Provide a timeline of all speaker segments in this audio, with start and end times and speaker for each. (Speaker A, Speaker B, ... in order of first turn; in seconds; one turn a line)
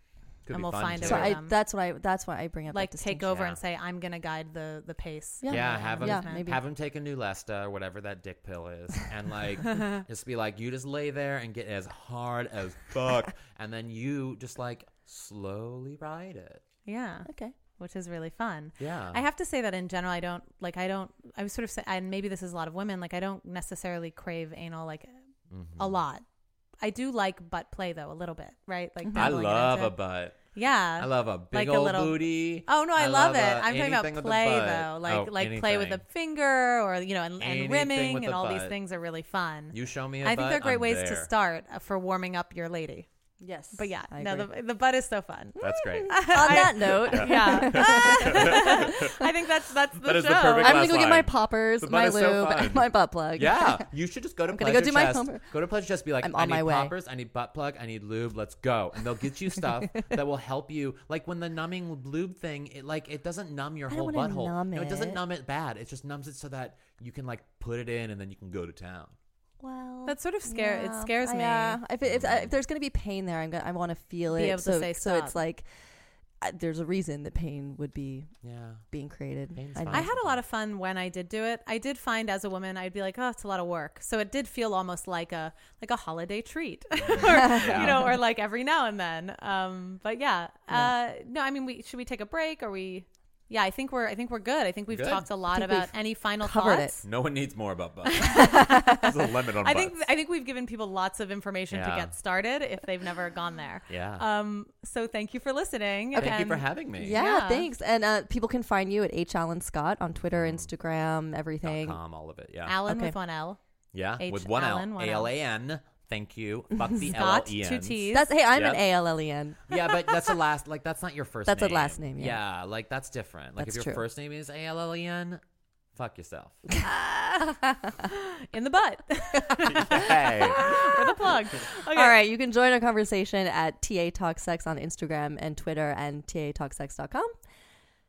Speaker A: 0.5-1.4
Speaker B: 0.5-1.6
Speaker C: 1.0-3.3
Speaker B: 2.7-6.5
Speaker A: 3.3-3.6
Speaker C: 5.4-6.6
Speaker A: 5.5-16.6
Speaker B: 9.7-10.0
Speaker B: 16.9-25.1
Speaker C: 17.2-17.5
Speaker A: 18.8-19.2
Speaker A: 25.5-26.0
Speaker B: 25.8-26.2
Speaker B: 26.8-29.9
Speaker C: 29.0-29.3
Speaker A: 29.1-30.4
Speaker B: 30.5-43.1
Speaker A: 31.0-36.0
Speaker A: 37.4-38.8
Speaker A: 39.7-41.3
Speaker C: 43.4-44.5
Speaker B: 43.7-50.9
Speaker C: 45.6-49.2
Speaker A: 45.6-69.1
Speaker C: 50.6-53.9
Speaker C: 54.5-55.5
Speaker C: 56.2-56.9
Speaker C: 63.9-65.2
Speaker C: 69.6-75.6
Speaker B: 70.0-71.8
Speaker A: 72.0-72.5
Speaker B: 74.3-75.4
Speaker C: 76.4-78.3
Speaker A: 78.4-78.8
Speaker C: 78.9-80.1
Speaker A: 79.5-80.4
Speaker B: 79.9-97.0
Speaker A: 87.0-88.1
Speaker A: 94.9-95.3
Speaker C: 95.5-97.0
Speaker A: 97.0-100.0
Speaker B: 98.1-107.7
Speaker C: 98.2-99.1
Speaker A: 101.7-102.1
Speaker A: 103.9-104.2
Speaker A: 106.1-107.2
Speaker C: 106.1-112.0
Speaker A: 110.2-110.7
Speaker A: 111.6-112.8
Speaker B: 112.7-113.6
Speaker C: 112.9-113.2
Speaker A: 113.9-118.8
Speaker B: 114.2-115.3
Speaker B: 117.0-118.3
Speaker C: 118.1-120.3
Speaker A: 119.7-125.4
Speaker C: 121.5-122.4
Speaker C: 123.6-124.0
Speaker A: 125.9-126.6
Speaker C: 126.7-128.0
Speaker B: 128.0-132.2
Speaker A: 129.6-131.0
Speaker C: 130.5-137.3